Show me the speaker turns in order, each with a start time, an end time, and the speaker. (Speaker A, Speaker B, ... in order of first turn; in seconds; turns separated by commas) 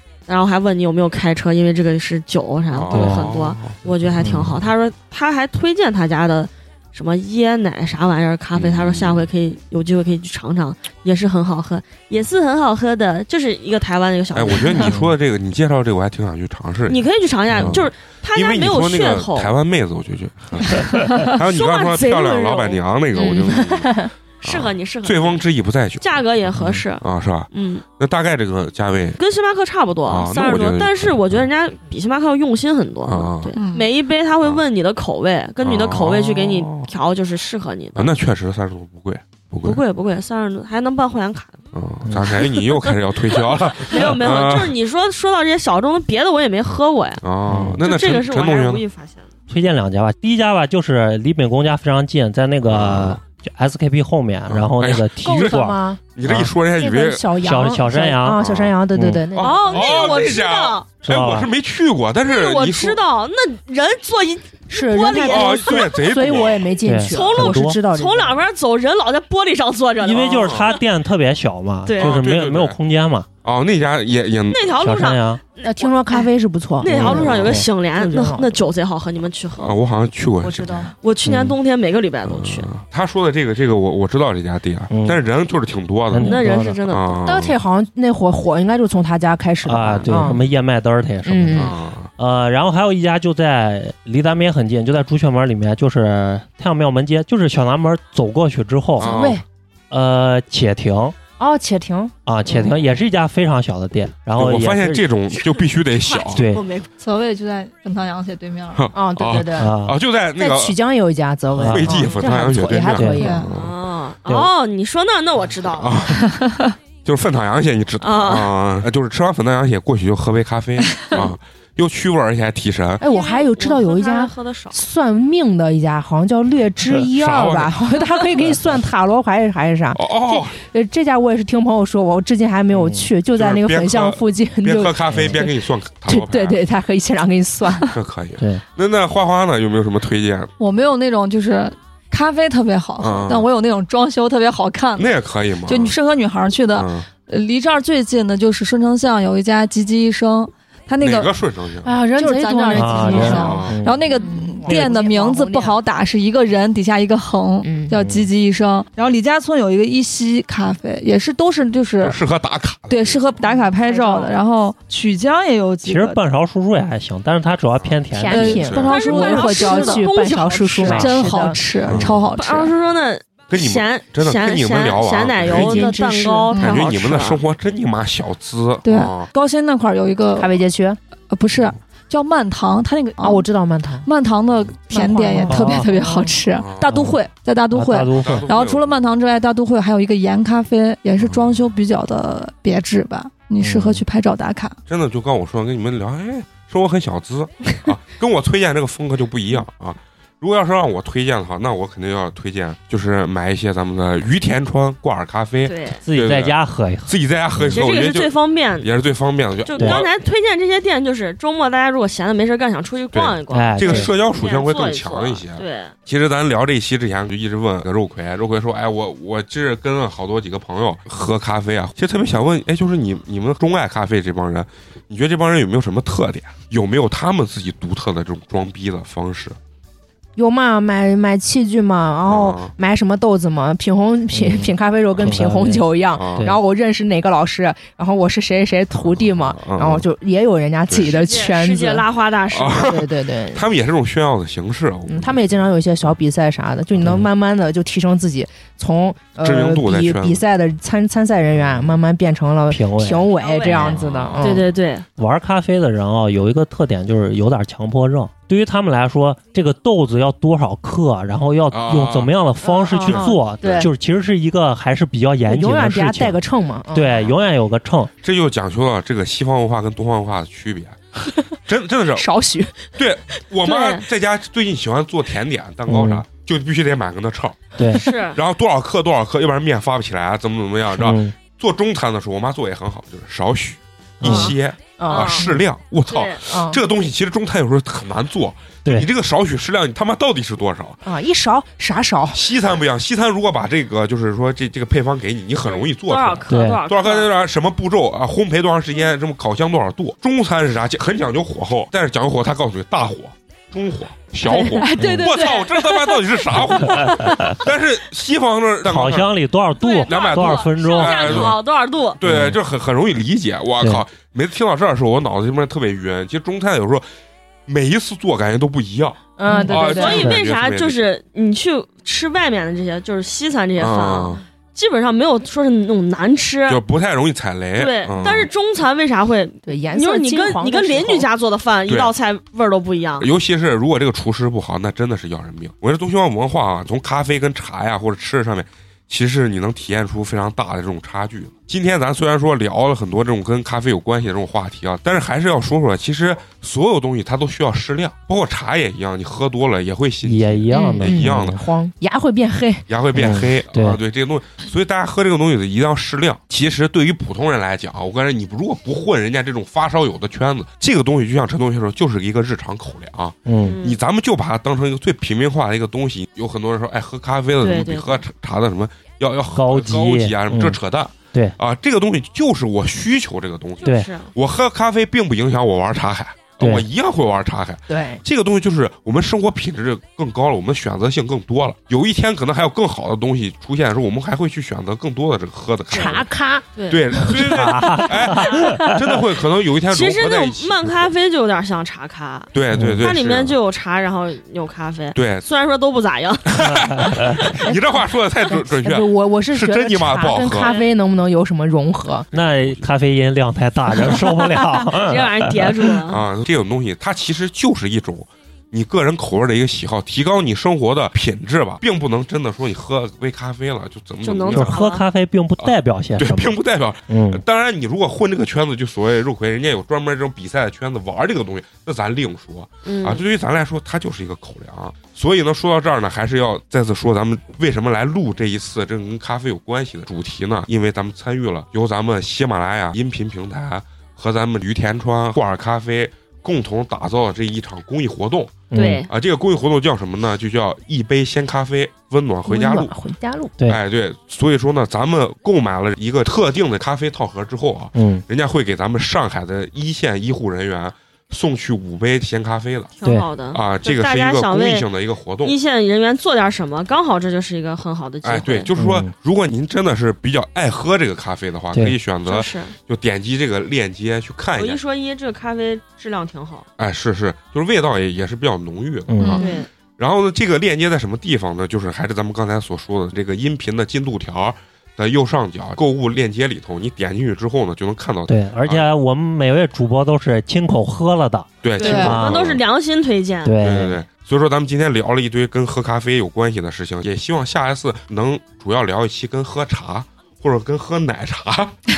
Speaker A: 0.3-15.0, Speaker B: 2.7-3.8, Speaker C: 2.9-3.3, Speaker C: 4.2-4.5, Speaker B: 8.5-9.3, Speaker B: 14.3-17.0, Speaker C: 14.8-15.1, Speaker A: 16.9-19.5, Speaker B: 17.5-26.1, Speaker A: 21.3-23.9, Speaker A: 24.4-25.4, Speaker A: 26.0-27.8, Speaker B: 27.0-29.2, Speaker A: 29.2-38.1, Speaker B: 30.1-31.4, Speaker B: 33.0-33.5, Speaker D: 33.5-33.9, Speaker B: 35.6-36.9, Speaker B: 37.9-39.8, Speaker A: 39.6-41.6, Speaker B: 41.7-44.7, Speaker C: 42.0-42.4, Speaker A: 42.4-47.2, Speaker B: 47.2-48.8, Speaker C: 47.5-47.8, Speaker A: 47.8-49.3, Speaker C: 49.5-56.5, Speaker B: 52.6-53.2, Speaker B: 54.5-55.6, Speaker E: 55.2-56.0, Speaker B: 56.1-57.3, Speaker E: 56.8-60.1, Speaker C: 57.4-58.4, Speaker B: 58.4-58.7, Speaker C: 58.9-59.2, Speaker B: 59.3-63.0, Speaker A: 59.4-60.9, Speaker C: 61.0-61.5, Speaker A: 62.2-66.5, Speaker E: 64.7-68.4, Speaker B: 65.1-66.7, Speaker C: 66.8-67.8, Speaker A: 67.1-70.8, Speaker C: 70.0-73.3, Speaker B: 70.3-70.7, Speaker A: 71.8-72.2, Speaker B: 72.0-72.8, Speaker B: 73.4-74.7, Speaker A: 74.5-76.3, Speaker C: 74.8-75.4, Speaker E: 75.6-78.5, Speaker A: 76.8-79.8, Speaker B: 76.9-77.5, Speaker C: 76.9-77.7, Speaker B: 79.5-80.9, Speaker D: 80.5-80.9, Speaker A: 81.0-82.7, Speaker C: 81.2-81.5, Speaker B: 82.2-87.5, Speaker C: 84.9-85.2, Speaker C: 86.1-86.8, Speaker A: 86.1-87.2, Speaker E: 87.2-90.4, Speaker C: 89.6-99.1, Speaker B: 90.0-90.4, Speaker E: 91.2-91.7, Speaker B: 91.5-92.1, Speaker B: 99.0-99.4, Speaker E: 99.0-99.4, Speaker C: 99.9-101.2, Speaker E: 101.4-102.1, Speaker C: 102.2-105.0, Speaker B: 104.4-106.4, Speaker A: 105.3-106.9, Speaker C: 106.3-106.6, Speaker D: 107.0-108.9, Speaker B: 108.7-110.8, Speaker E: 108.9-109.7, Speaker C: 109.6-110.0, Speaker E: 110.4-113.5, Speaker C: 111.5-112.0, Speaker B: 111.7-113.8, Speaker A: 112.0-112.2, Speaker C: 112.9-113.2, Speaker D: 113.2-113.5, Speaker A: 113.5-116.0, Speaker B: 115.7-116.3, Speaker D: 116.3-116.7, Speaker B: 117.0-123.0, Speaker A: 118.0-118.5, Speaker E: 123.0-137.9, Speaker A: 123.0-124.8, Speaker B: 127.1-127.9, Speaker B: 129.9-130.6, Speaker C: 132.7-133.1, Speaker B: 133.3-136.6, Speaker C: 135.1-135.4, Speaker B: 137.8-140.5, Speaker D: 140.6-151.3, Speaker B: 143.0-143.5, Speaker B: 144.9-145.9, Speaker B: 146.7-147.1, Speaker B: 151.0-151.9, Speaker E: 151.8-155.8, Speaker D: 152.1-162.2, Speaker C: 152.7-154.1, Speaker B: 153.1-153.7, Speaker E: 157.6-157.9, Speaker C: 157.9-158.3, Speaker B: 162.0-163.2, Speaker D: 162.9-166.2, Speaker E: 163.4-164.4, Speaker C: 165.8-168.8, Speaker E: 168.1-171.6, Speaker D: 168.3-172.7, Speaker B: 168.6-168.9, Speaker A: 168.9-170.9, Speaker C: 170.8-171.1, Speaker B: 171.8-172.2, Speaker A: 172.3-177.4, Speaker B: 173.5-175.9, Speaker E: 175.5-176.5, Speaker D: 176.5-176.8, Speaker B: 176.6-179.3, Speaker D: 178.8-180.6, Speaker E: 180.4-181.0, Speaker D: 181.3-183.4, Speaker E: 183.2-184.1, Speaker D: 184.0-194.8, Speaker E: 184.9-186.3, Speaker C: 185.4-185.8, Speaker B: 186.5-186.9, Speaker C: 186.9-187.2, Speaker C: 187.7-188.4, Speaker B: 188.2-189.0, Speaker C: 193.6-194.0, Speaker B: 194.9-206.6, Speaker A: 205.7-206.0, Speaker C: 206.1-207.8, Speaker B: 207.1-210.1, Speaker A: 207.7-208.9, Speaker A: 209.6-215.9, Speaker C: 209.8-210.0, Speaker B: 213.1-229.6, Speaker C: 213.5-214.1, Speaker E: 230.3-242.1, Speaker B: 232.2-232.7, Speaker C: 234.3-235.8, Speaker B: 236.1-236.4, Speaker B: 238.9-240.0, Speaker B: 240.9-241.1, Speaker A: 241.0-242.9, Speaker B: 242.5-246.2, Speaker E: 242.8-243.6, Speaker E: 245.1-254.7, Speaker C: 247.0-247.2, Speaker B: 249.4-250.4, Speaker C: 252.7-253.3, Speaker A: 253.4-255.1, Speaker B: 253.6-254.6, Speaker C: 255.2-266.4, Speaker B: 261.7-262.3, Speaker E: 262.6-263.9, Speaker A: 262.9-263.2, Speaker E: 265.5-267.3, Speaker C: 266.9-268.1, Speaker B: 268.2-271.0, Speaker B: 271.6-272.3, Speaker E: 272.2-272.9, Speaker B: 272.9-277.7, Speaker A: 273.6-274.1, Speaker C: 275.9-276.2, Speaker C: 277.8-278.0, Speaker A: 277.9-278.4, Speaker B: 278.3-291.0, Speaker C: 280.9-281.3, Speaker C: 284.2-284.5, Speaker E: 285.0-285.6, Speaker A: 285.1-285.4, Speaker A: 286.1-286.4, Speaker E: 286.4-286.8, Speaker E: 291.0-292.4, Speaker B: 292.3-309.3, Speaker A: 295.7-297.3, Speaker C: 296.5-296.8, Speaker A: 304.5-305.9, Speaker D: 304.8-305.4, Speaker C: 305.0-305.3, Speaker C: 306.8-307.6, Speaker C: 308.8-311.5, Speaker A: 309.8-312.2, Speaker B: 310.1-311.6, Speaker B: 312.2-317.0, Speaker C: 312.2-312.6, Speaker B: 317.7-321.0, Speaker E: 319.4-320.2, Speaker C: 319.5-320.4, Speaker A: 319.7-326.8, Speaker B: 323.8-324.4, Speaker B: 326.7-328.5, Speaker A: 327.8-333.3, Speaker E: 329.6-331.3, Speaker B: 331.9-332.1, Speaker B: 333.2-351.5, Speaker C: 350.2-351.6, Speaker E: 350.7-352.9, Speaker B: 352.9-386.3, Speaker C: 353.1-354.0, Speaker C: 363.4-363.8, Speaker A: 363.6-364.0, Speaker A: 367.6-368.2, Speaker C: 369.5-370.8, Speaker A: 373.8-374.3, Speaker C: 376.6-376.8, Speaker E: 377.9-378.2, Speaker A: 385.9-386.2, Speaker E: 385.9-387.4, Speaker A: 386.7-387.1, Speaker B: 386.9-391.1, Speaker C: 387.3-389.0, Speaker A: 388.2-388.8, Speaker A: 389.9-397.3, Speaker B: 392.5-393.6, Speaker C: 392.7-393.1, Speaker B: 395.1-395.4, Speaker B: 396.5-400.7, Speaker C: 396.6-397.4, Speaker E: 397.6-402.3, Speaker A: 400.5-400.9, Speaker C: 402.3-405.9, Speaker B: 402.3-402.9, Speaker E: 404.0-404.8, Speaker A: 404.9-406.3, Speaker B: 406.1-414.8, Speaker A: 414.2-415.0, Speaker C: 414.5-416.6, Speaker B: 415.6-442.9, Speaker C: 417.1-417.4, Speaker A: 422.8-423.2, Speaker C: 438.7-439.0, Speaker A: 438.7-439.1, Speaker E: 442.5-443.6, Speaker B: 443.7-452.9, Speaker C: 447.9-448.2, Speaker A: 453.0-454.9, Speaker B: 453.5-455.6, Speaker A: 455.4-458.7, Speaker B: 458.2-464.8, Speaker C: 458.8-459.1, Speaker A: 462.2-462.8, Speaker A: 464.6-466.6, Speaker B: 466.8-469.4, Speaker C: 469.1-469.4, Speaker D: 469.2-469.6, Speaker A: 469.4-469.7, Speaker B: 470.0-478.9, Speaker C: 478.3-482.4, Speaker B: 481.6-482.6, Speaker A: 481.8-483.6, Speaker D: 481.8-482.1, Speaker C: 483.4-484.0, Speaker B: 483.6-491.8